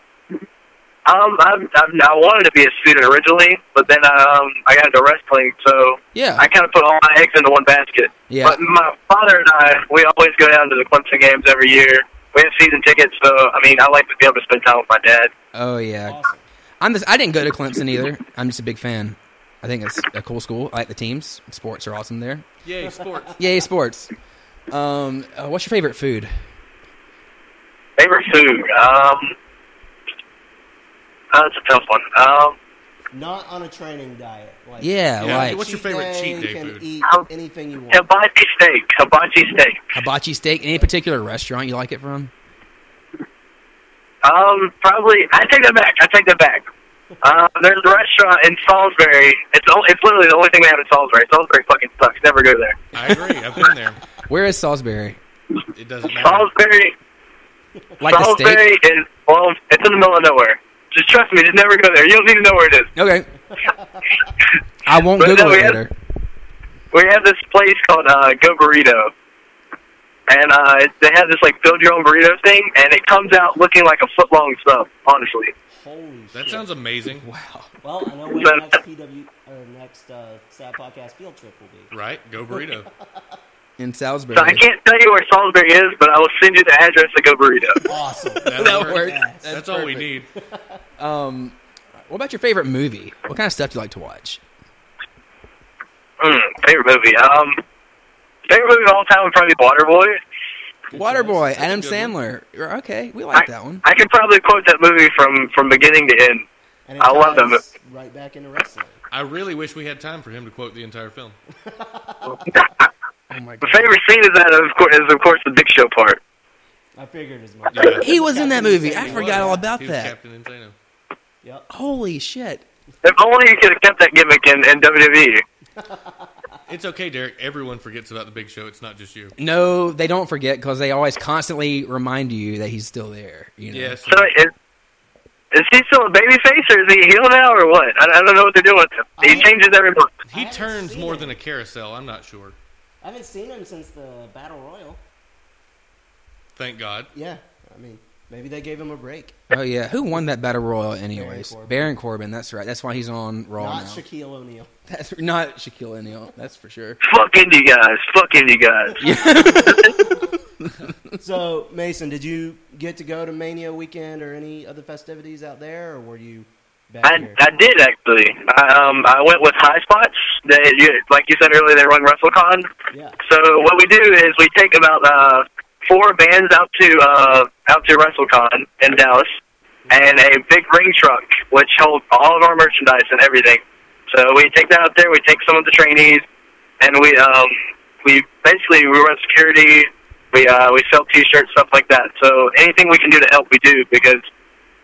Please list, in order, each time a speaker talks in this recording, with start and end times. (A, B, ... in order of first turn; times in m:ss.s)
0:01.1-0:15.3 A
0:06.1-0:06.5 B
0:08.3-0:08.6 B
0:15.5-0:16.2 B
0:16.0-0:16.5 C
0:16.8-0:22.5 B
0:22.6-0:23.4 D
0:23.4-0:24.1 B
0:24.7-0:26.3 B
0:28.0-0:29.4 A
0:31.3-0:32.6 A
0:33.1-0:38.0 C
0:34.8-0:35.6 B
0:35.2-0:36.8 D
0:37.9-0:39.8 A
0:39.9-0:42.3 B
0:40.6-0:40.9 C
0:44.2-0:46.6 A
0:47.2-0:52.9 A
0:52.9-0:54.0 D
0:54.3-0:55.2 B
0:55.7-0:56.5 D
0:56.1-0:57.0 A
0:58.0-0:58.7 B
0:58.0-1:02.9 A
1:03.0-1:03.3 B
1:03.5-1:04.3 C
1:04.8-1:05.9 B
1:05.2-1:05.8 A
1:06.9-1:09.1 A
1:10.3-1:15.5 A
1:15.7-1:16.7 C
1:16.3-1:17.3 D
1:17.2-1:17.7 B
1:17.8-1:21.9 C
1:18.4-1:18.7 A
1:21.9-1:22.9 D
1:22.5-1:23.4 C
1:23.8-1:24.6 B
1:24.3-1:27.8 A
1:27.8-1:29.7 C
1:28.4-1:30.3 D
1:28.5-1:30.1 B
1:30.3-1:30.8 C
1:31.0-1:34.4 B
1:36.2-1:37.6 A
1:38.5-1:40.2 A
1:40.9-1:41.4 C
1:40.9-1:43.8 B
1:41.1-1:42.1 D
1:43.3-1:46.4 A
1:46.9-1:49.0 C
1:47.0-1:47.6 A
1:49.1-1:51.4 D
1:51.5-1:52.7 C
1:52.4-1:52.9 A
1:53.3-1:53.9 B
1:53.6-1:56.2 A
1:57.0-1:59.7 C
1:57.7-1:58.1 D
1:57.8-2:00.2 B
1:59.0-2:00.8 D
2:01.4-2:01.7 C
2:01.7-2:02.6 B
2:03.0-2:05.4 A
2:05.8-2:06.5 C
2:06.7-2:09.4 D
2:09.4-2:14.0 B
2:13.7-2:14.4 D
2:14.1-2:14.5 A
2:15.5-2:20.2 A
2:19.2-2:19.5 C
2:20.2-2:21.4 C
2:20.3-2:22.6 D
2:23.0-2:25.0 C
2:26.6-2:27.1 D
2:27.1-2:29.4 C
2:29.5-2:34.0 B
2:31.1-2:31.9 C
2:33.6-2:34.7 C
2:34.9-2:37.0 B
2:37.0-2:40.1 A
2:39.0-2:41.0 B
2:39.1-2:40.2 C
2:41.2-2:47.4 C
2:47.0-2:52.7 A
2:52.9-2:53.2 C
2:53.2-2:59.3 A
2:59.9-3:00.2 C
2:59.9-3:06.2 A
3:06.8-3:14.2 A